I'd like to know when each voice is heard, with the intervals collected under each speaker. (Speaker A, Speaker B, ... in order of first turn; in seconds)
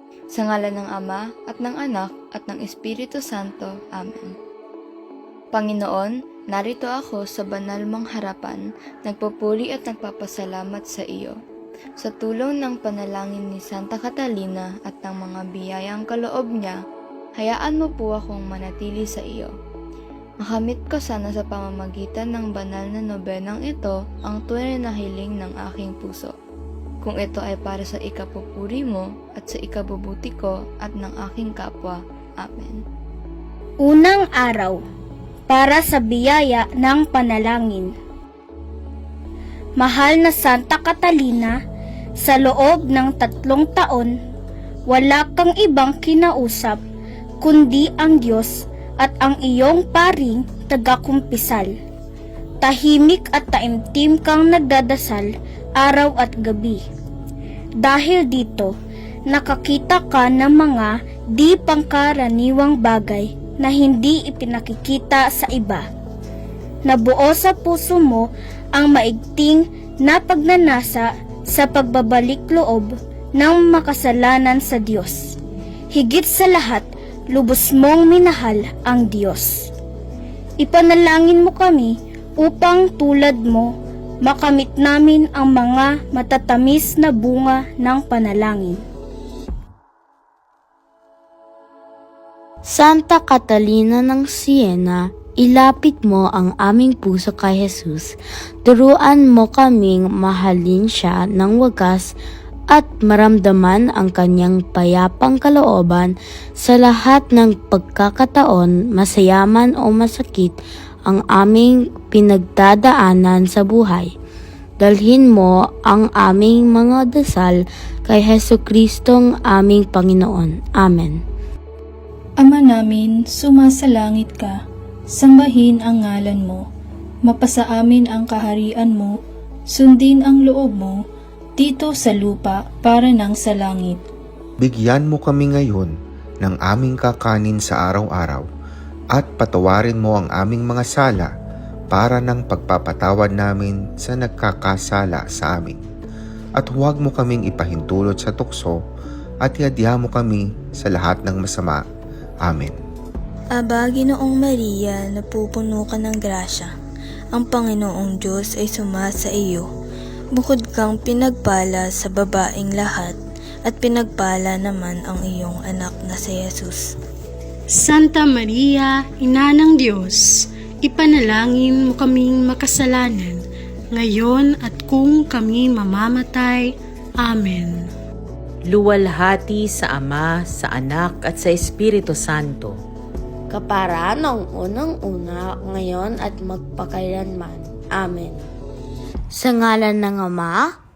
Speaker A: 0.3-4.3, 5.5-11.3, 12.0-16.8, 17.4-19.5, 20.4-26.3, 27.0-32.8
Speaker B: 33.8-34.8, 35.5-37.9, 39.8-41.6, 42.2-44.1, 44.9-46.8, 47.4-51.7, 52.6-56.8, 57.8-58.7, 59.3-65.8, 66.9-75.2, 75.9-79.5, 80.6-83.7, 84.2-88.8
Speaker C: 92.7-102.1, 102.7-114.1, 114.8-121.2, 183.5-188.4, 189.3-190.7
Speaker D: 122.4-124.6, 125.1-126.7, 127.3-129.2, 129.7-131.0, 131.6-134.0
Speaker E: 134.6-138.4, 139.1-141.3, 141.9-145.8, 146.6-148.8, 149.4-151.8, 152.4-152.8
Speaker F: 153.6-156.7, 157.4-159.6, 160.4-166.8
Speaker G: 167.7-177.9
Speaker H: 178.6-182.8